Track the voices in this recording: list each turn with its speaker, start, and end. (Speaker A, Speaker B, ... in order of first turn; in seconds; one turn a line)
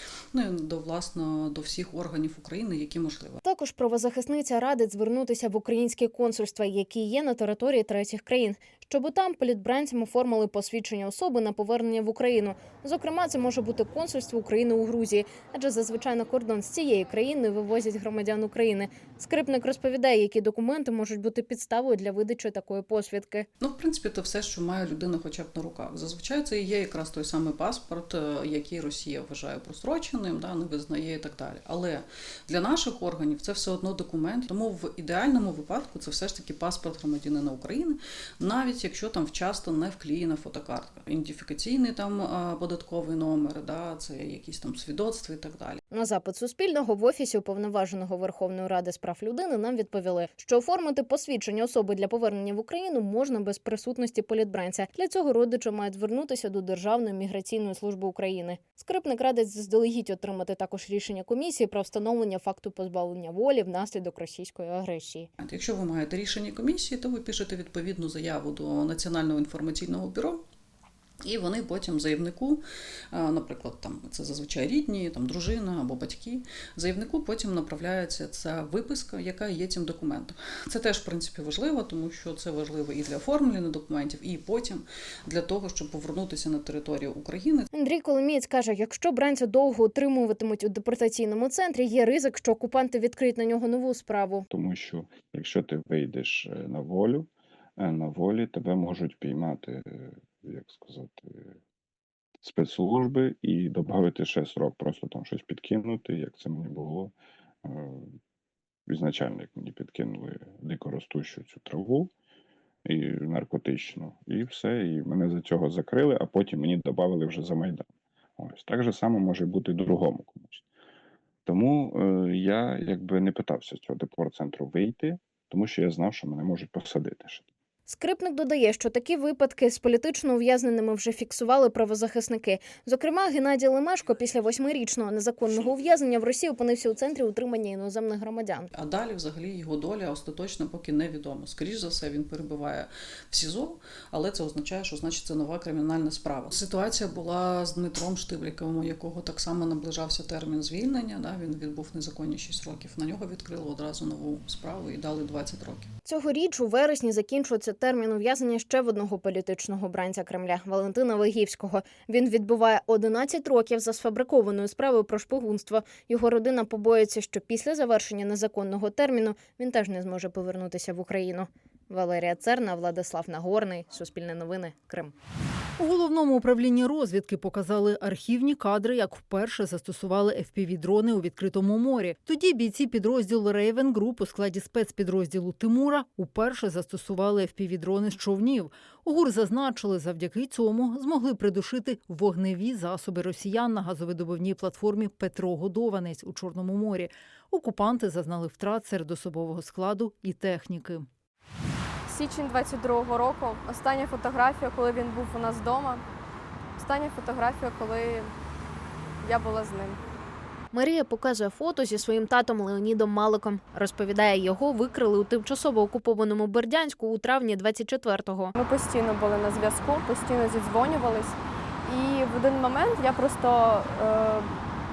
Speaker A: 0.3-3.4
Speaker B: 3.4-23.5
Speaker A: 23.6-45.8
Speaker B: 45.9-65.3
Speaker A: 65.4-70.4
Speaker A: 71.2-87.7
Speaker B: 87.7-94.5
Speaker C: 94.5-101.5
Speaker C: 102.4-107.1
Speaker C: 107.6-108.1
Speaker C: 108.9-112.1
Speaker C: 112.8-117.8
Speaker C: 118.4-120.6
Speaker C: 121.5-127.5
Speaker B: 127.9-138.7
Speaker A: 138.7-155.9
Speaker B: 156.0-175.1
Speaker D: 175.8-201.1
Speaker E: 202.1-206.0
Speaker E: 206.8-208.3
Speaker E: 209.2-210.0
Speaker B: 210.7-218.5
Speaker E: 218.6-224.6